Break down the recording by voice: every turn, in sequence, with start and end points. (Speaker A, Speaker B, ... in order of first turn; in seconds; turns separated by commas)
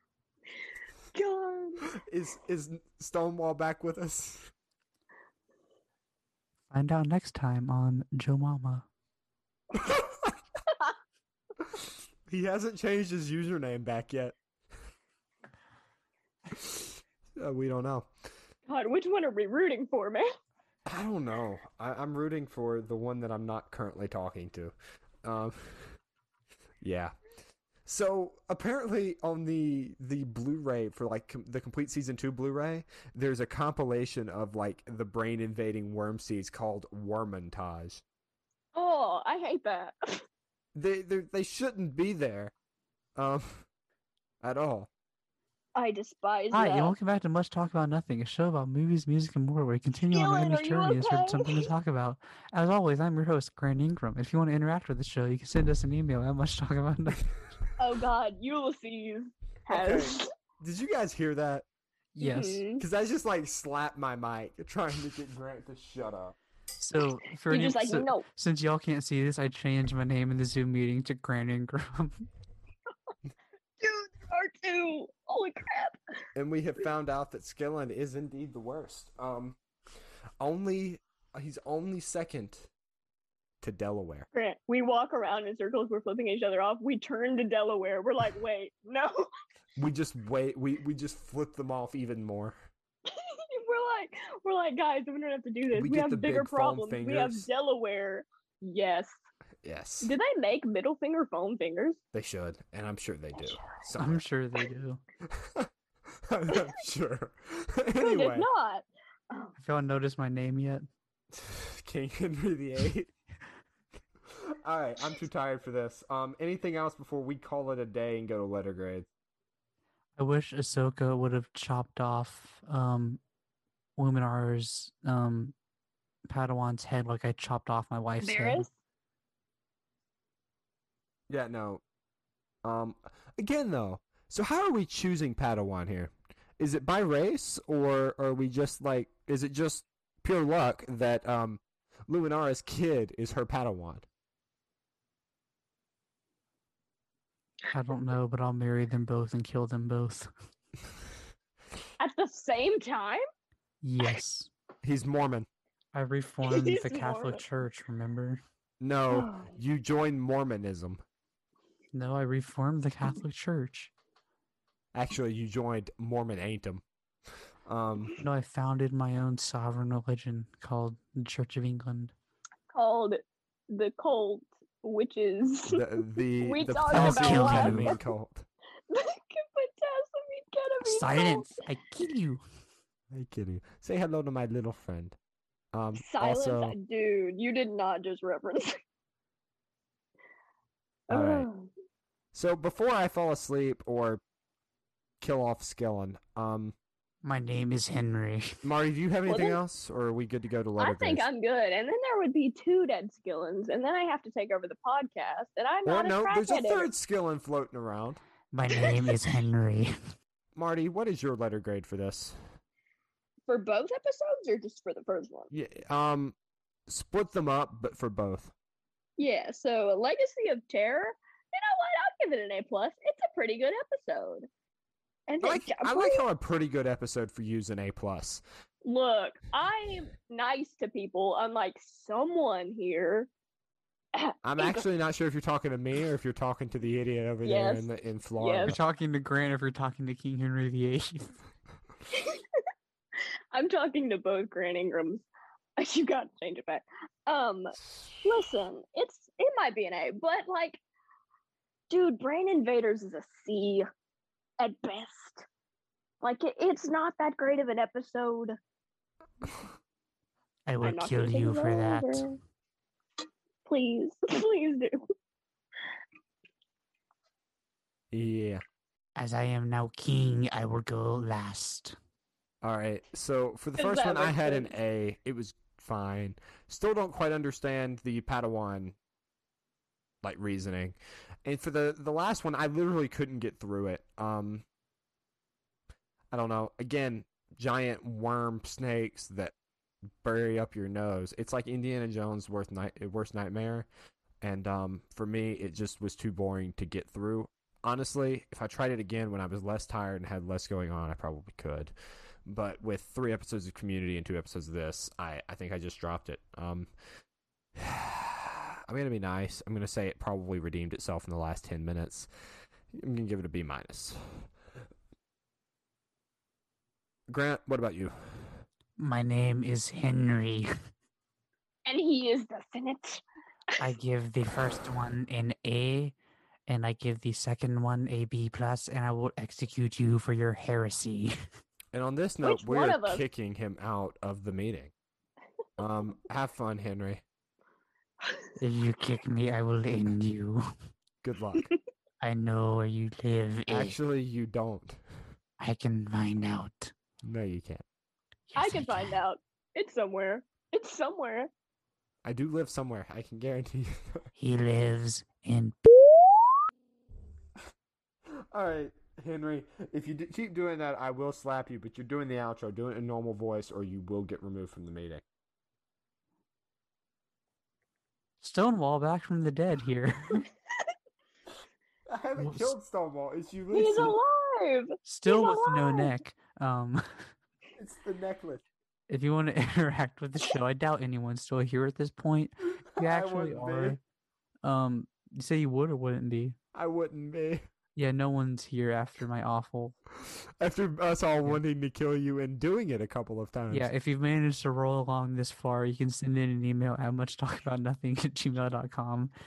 Speaker A: 1.1-1.9, Speaker B: 1.9-4.5, Speaker C: 6.7-8.8, Speaker B: 9.7-10.3, Speaker B: 11.6-14.3, Speaker B: 16.5-18.1, Speaker A: 18.7-20.3, Speaker B: 20.9-26.0, Speaker B: 26.8-27.1, Speaker B: 27.8-38.0, Speaker A: 38.7-40.2, Speaker B: 40.7-42.5, Speaker B: 43.1-43.6, Speaker B: 44.4-44.9, Speaker A: 45.8-46.9, Speaker C: 46.5-57.2, Speaker A: 50.1-51.7, Speaker A: 57.8-60.3, Speaker B: 59.7-61.6, Speaker C: 62.1-62.6, Speaker A: 62.2-62.8, Speaker B: 62.8-66.4, Speaker C: 66.8-72.2, Speaker A: 67.5-68.2, Speaker A: 73.8-76.0, Speaker B: 76.3-79.6, Speaker B: 80.4-82.7, Speaker B: 83.6-84.3, Speaker A: 84.3-89.3, Speaker B: 89.8-92.6, Speaker A: 93.0-99.1, Speaker B: 95.7-97.5, Speaker B: 99.6-100.1, Speaker A: 100.0-102.0, Speaker B: 102.1-104.2, Speaker C: 104.0-105.0, Speaker B: 105.2-105.7, Speaker B: 106.3-108.5, Speaker A: 108.0-109.5, Speaker C: 109.6-110.8, Speaker B: 111.3-113.1, Speaker B: 114.3-119.1, Speaker C: 120.2-123.2, Speaker C: 124.0-125.5, Speaker C: 126.3-128.7, Speaker A: 128.2-128.7, Speaker B: 131.3-131.8, Speaker B: 132.6-144.1, Speaker C: 147.7-150.3, Speaker A: 152.0-153.2, Speaker C: 153.8-154.5, Speaker B: 154.8-155.5, Speaker C: 155.9-158.4, Speaker A: 156.4-157.4, Speaker B: 158.8-161.0, Speaker A: 159.1-159.5, Speaker C: 161.9-163.9, Speaker B: 164.9-166.8, Speaker B: 167.7-168.1, Speaker C: 168.2-172.1, Speaker A: 172.7-175.8, Speaker B: 175.7-178.5, Speaker A: 176.4-178.0, Speaker C: 176.9-178.0, Speaker A: 178.9-181.7, Speaker C: 180.8-182.4, Speaker B: 183.1-185.2, Speaker B: 185.7-186.8, Speaker A: 185.9-188.8, Speaker A: 191.1-191.7, Speaker B: 191.1-191.5, Speaker B: 192.3-194.2, Speaker B: 195.2-196.7, Speaker C: 197.2-198.6, Speaker B: 198.6-201.2, Speaker A: 199.3-199.6, Speaker A: 200.8-206.9, Speaker B: 205.8-208.2, Speaker C: 208.5-209.9, Speaker A: 208.7-209.3, Speaker B: 210.5-212.4, Speaker A: 213.5-215.5, Speaker B: 215.5-216.3, Speaker B: 216.9-218.5, Speaker A: 219.2-224.5, Speaker A: 225.3-226.2, Speaker B: 225.4-228.4, Speaker A: 228.8-233.3, Speaker A: 234.1-234.8, Speaker B: 234.4-238.8, Speaker A: 237.4-237.8, Speaker A: 238.4-238.7, Speaker C: 238.6-241.3, Speaker A: 242.1-242.6, Speaker A: 243.5-245.2, Speaker A: 245.8-250.8, Speaker A: 251.9-253.8, Speaker A: 254.6-255.4, Speaker A: 256.2-258.6, Speaker C: 260.7-262.2, Speaker A: 260.8-262.4, Speaker A: 263.6-265.0, Speaker B: 268.1-268.6, Speaker C: 269.1-271.9, Speaker B: 272.6-278.9, Speaker A: 273.8-274.7, Speaker B: 280.2-284.6, Speaker B: 286.3-289.5, Speaker B: 290.2-293.9, Speaker B: 294.4-301.9, Speaker B: 302.4-306.9, Speaker B: 307.7-312.3, Speaker B: 312.9-314.2, Speaker B: 317.3-318.6, Speaker C: 319.0-320.7, Speaker A: 321.9-323.2, Speaker C: 323.8-326.1, Speaker C: 326.7-331.3, Speaker B: 331.9-334.9, Speaker A: 332.4-333.2, Speaker B: 335.8-337.2, Speaker A: 338.2-338.5, Speaker C: 338.6-340.6, Speaker B: 341.2-341.7, Speaker C: 342.2-343.9, Speaker B: 343.7-345.0, Speaker C: 345.6-346.9, Speaker B: 347.2-347.8, Speaker C: 348.5-349.1, Speaker A: 348.6-351.5, Speaker B: 352.2-354.3, Speaker C: 354.4-355.8, Speaker B: 358.4-365.2, Speaker C: 368.4-370.4, Speaker B: 372.1-374.2, Speaker C: 372.4-372.7, Speaker A: 373.7-376.1, Speaker C: 375.1-377.0, Speaker B: 377.8-378.6, Speaker C: 379.1-384.0, Speaker B: 382.9-384.0, Speaker C: 384.6-386.6, Speaker B: 386.7-387.6, Speaker C: 387.9-389.9, Speaker B: 390.2-393.9, Speaker C: 393.7-399.3